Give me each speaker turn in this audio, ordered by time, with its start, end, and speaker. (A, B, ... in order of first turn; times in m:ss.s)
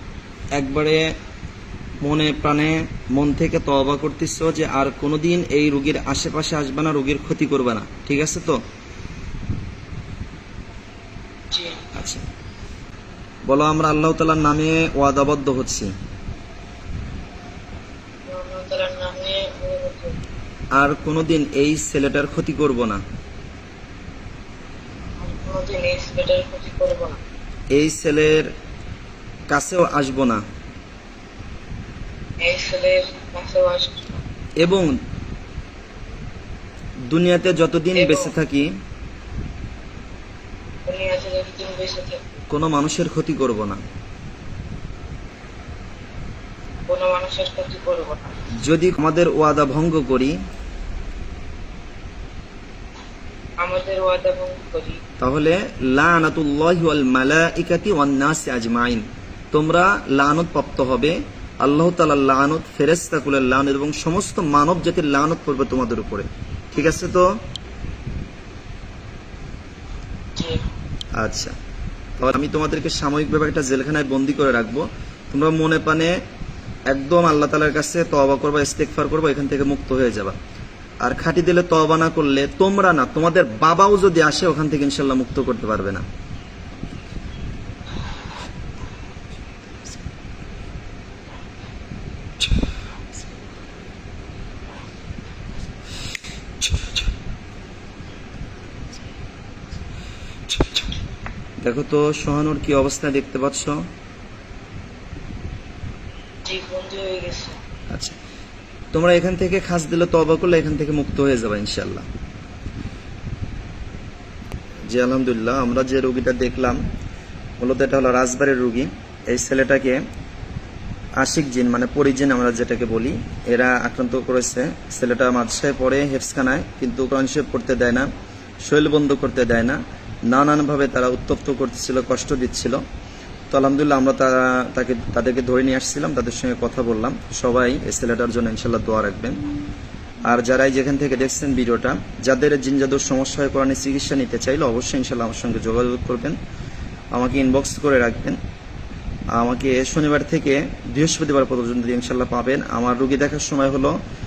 0:00.6-0:01.0 A
0:02.0-0:08.6 A
0:11.5-0:11.9 B
0:11.9-0:12.2 A
0:13.5-0:15.9 A
0:18.3-0:20.2 B
0:20.8-0:23.0 A
0:25.2-0:27.2 B
0:27.7-0:28.5 A
0:29.5-0:30.4 A
0:32.4-0:34.2 B
0:34.6-0:34.9 A
0:37.1-0:38.7 A
0:37.9-0:38.3 B
0:40.9-0:42.3 B
0:42.5-0:43.8 A
0:46.9-0:48.3 B
0:48.6-0:50.4 A
0:53.6-0:55.0 B
0:55.2-1:07.3 A
1:10.4-1:10.6 B
1:11.2-1:11.5 A
1:12.2-1:16.1 A
1:16.9-1:20.3 A
1:21.0-1:26.0 A
1:41.6-1:43.8 A
1:46.4-1:47.6 B
1:47.9-1:48.2 A
1:48.9-1:52.0 A
1:54.9-1:56.8 A
1:57.6-2:00.0 A
2:01.2-2:08.1 A
2:08.6-2:09.8 A
2:10.3-2:12.8 A
2:13.5-2:19.4 A
2:20.3-2:26.4 A
2:27.1-2:28.4 A
2:29.4-2:33.9 A